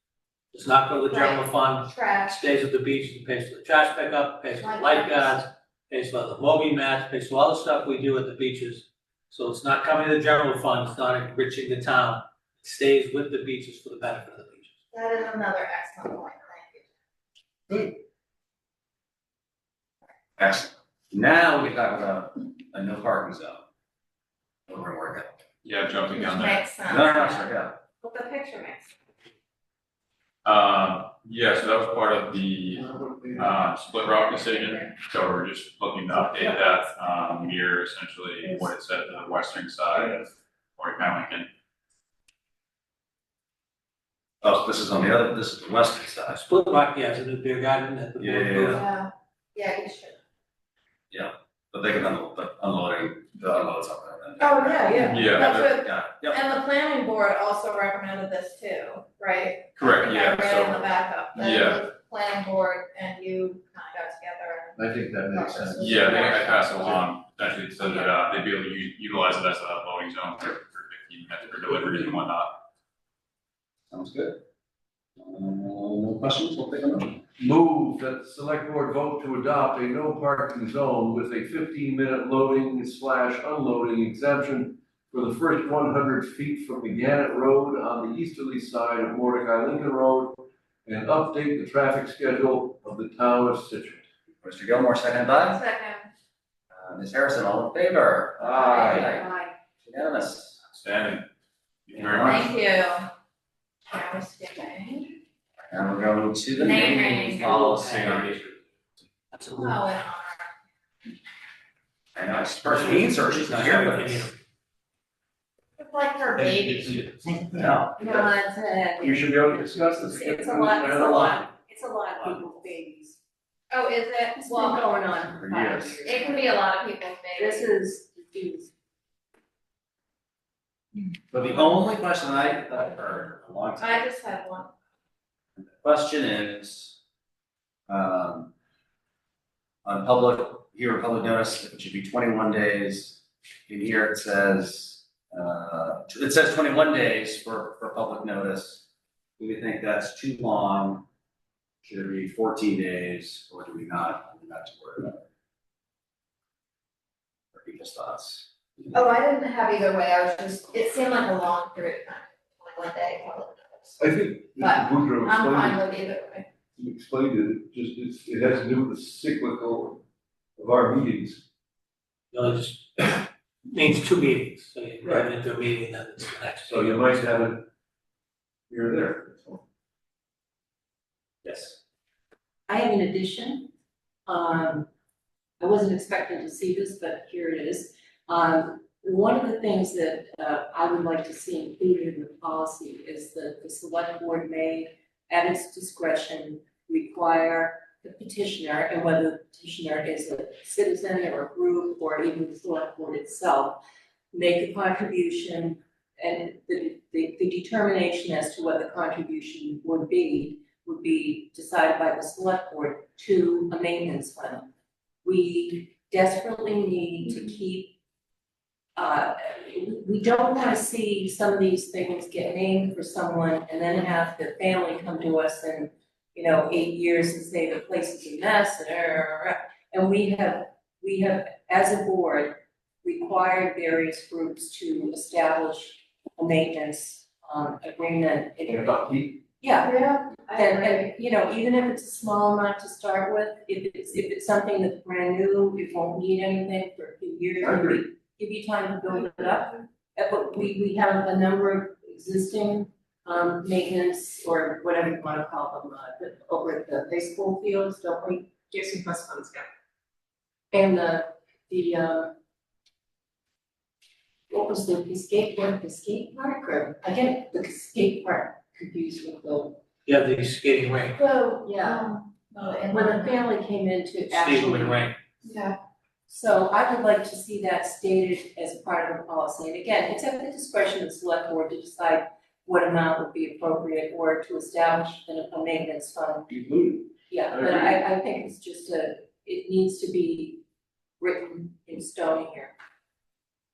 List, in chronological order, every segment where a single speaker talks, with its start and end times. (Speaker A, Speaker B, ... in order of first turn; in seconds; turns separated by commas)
Speaker A: 0.5-14.7, Speaker B: 1.1-2.4, Speaker B: 4.5-5.4, Speaker B: 14.9-16.8, Speaker C: 20.4-23.6, Speaker C: 24.7-25.4, Speaker D: 25.6-26.6, Speaker B: 26.2-27.4, Speaker C: 26.9-27.8, Speaker B: 28.0-28.9, Speaker D: 30.4-41.5, Speaker E: 32.7-33.7, Speaker C: 44.4-46.4, Speaker A: 46.3-48.8, Speaker C: 48.2-48.8, Speaker B: 48.6-50.2, Speaker C: 51.1-56.4, Speaker B: 54.4-64.8, Speaker D: 55.0-55.7, Speaker D: 59.8-61.8, Speaker E: 64.8-66.8, Speaker B: 65.3-67.0, Speaker D: 65.8-72.6, Speaker B: 67.8-68.1, Speaker C: 73.9-74.4, Speaker C: 75.2-77.2, Speaker E: 77.4-94.0, Speaker C: 94.4-95.6, Speaker B: 95.5-96.1, Speaker C: 96.7-99.3, Speaker B: 98.4-99.5, Speaker C: 99.8-100.6, Speaker D: 100.7-101.2, Speaker D: 101.9-102.5, Speaker C: 102.0-102.5, Speaker B: 102.2-103.1, Speaker B: 103.9-105.2, Speaker C: 105.7-108.4, Speaker B: 106.6-107.6, Speaker D: 107.4-108.5, Speaker B: 109.5-110.5, Speaker C: 112.1-114.3, Speaker A: 112.6-114.3, Speaker B: 115.8-117.1, Speaker C: 117.5-118.1, Speaker F: 118.0-123.2, Speaker E: 119.0-121.5, Speaker C: 122.2-122.4, Speaker B: 123.7-124.8, Speaker F: 124.4-126.6, Speaker C: 125.2-126.2, Speaker B: 126.0-127.7, Speaker F: 127.4-128.7, Speaker C: 131.3-134.1, Speaker B: 133.8-134.7, Speaker C: 135.6-137.0, Speaker C: 137.9-138.5, Speaker C: 139.8-148.8, Speaker C: 149.4-151.1, Speaker C: 151.8-155.2, Speaker C: 157.5-158.9, Speaker B: 158.9-164.0, Speaker E: 164.0-165.8, Speaker B: 164.6-166.5, Speaker E: 166.8-170.0, Speaker E: 170.6-171.4, Speaker A: 172.3-177.2, Speaker E: 176.7-177.7, Speaker E: 178.7-179.6, Speaker F: 182.7-183.7, Speaker F: 184.2-184.9, Speaker F: 185.6-203.8, Speaker F: 204.3-214.7, Speaker F: 215.2-217.9, Speaker F: 218.9-259.6, Speaker E: 238.7-239.4, Speaker B: 239.8-241.0, Speaker E: 247.6-248.0, Speaker F: 260.7-262.3, Speaker F: 264.5-269.8, Speaker A: 270.1-271.2, Speaker B: 271.2-273.4, Speaker F: 271.6-272.1, Speaker F: 272.9-275.1, Speaker A: 274.3-275.1, Speaker B: 275.4-275.8, Speaker F: 276.3-286.5, Speaker E: 286.5-288.0, Speaker F: 287.3-290.6, Speaker F: 291.2-292.7